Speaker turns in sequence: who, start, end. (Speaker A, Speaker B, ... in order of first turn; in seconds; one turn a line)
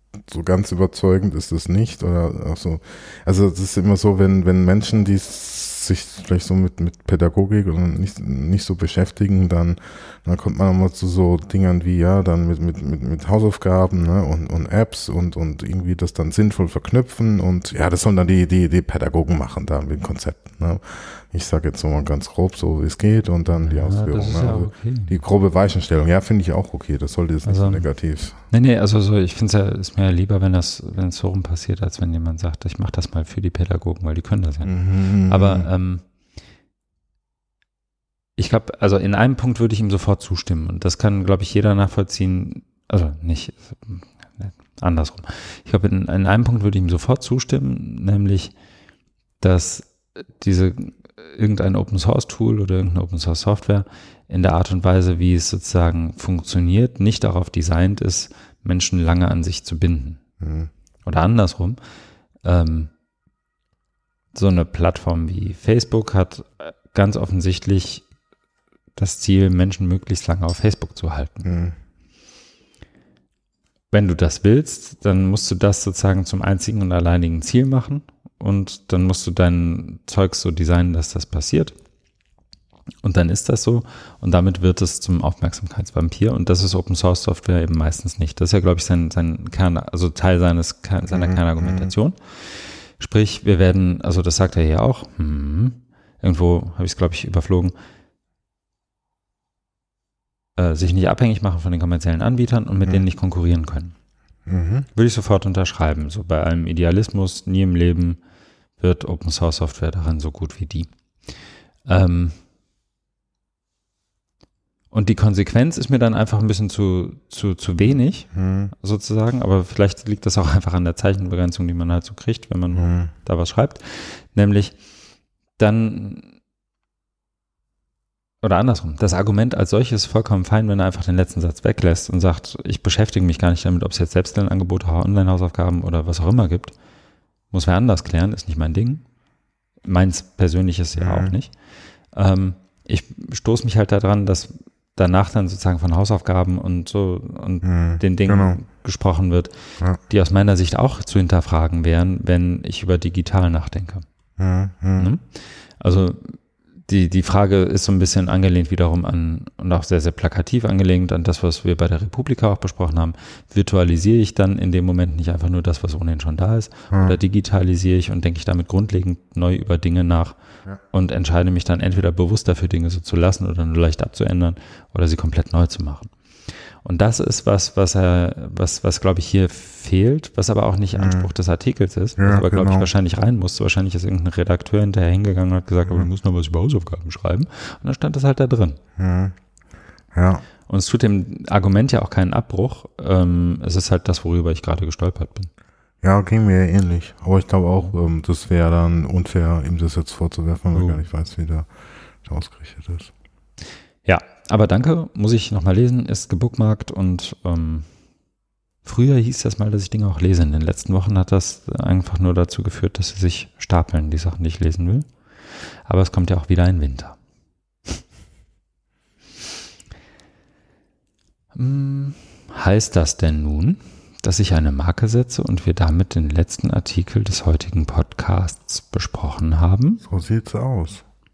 Speaker A: 0.3-28.4
Speaker B: 23.6-25.2
Speaker B: 27.4-27.9
Speaker B: 28.5-36.0
Speaker A: 34.6-35.7
Speaker B: 38.4-48.5
Speaker B: 49.4-60.2
Speaker A: 60.4-60.7
Speaker B: 61.0-61.8
Speaker B: 62.4-62.9
Speaker B: 64.3-68.0
Speaker B: 69.0-71.5
Speaker A: 71.4-71.7
Speaker B: 73.9-81.7
Speaker B: 83.0-97.7
Speaker A: 91.1-91.9
Speaker B: 100.5-103.9
Speaker A: 104.5-104.9
Speaker B: 104.9-108.2
Speaker B: 108.8-110.9
Speaker B: 111.8-112.3
Speaker B: 114.9-124.8
Speaker A: 118.3-118.7
Speaker A: 122.7-123.1
Speaker B: 125.6-126.3
Speaker B: 128.4-136.7
Speaker B: 137.5-139.0
Speaker B: 139.8-141.5
Speaker A: 141.0-141.3
Speaker B: 142.1-149.5
Speaker A: 147.6-148.6
Speaker B: 150.1-154.0
Speaker A: 154.4-155.1
Speaker B: 155.0-170.4
Speaker A: 166.9-167.2
Speaker B: 170.9-176.1
Speaker B: 176.8-188.8
Speaker A: 180.9-181.3
Speaker A: 182.2-182.9
Speaker A: 189.0-189.3
Speaker A: 190.1-190.4
Speaker B: 190.7-195.5
Speaker A: 196.0-201.7
Speaker B: 200.7-201.0
Speaker A: 202.2-203.1
Speaker B: 204.1-207.9
Speaker B: 208.8-217.2
Speaker B: 221.5-230.0
Speaker A: 230.0-231.0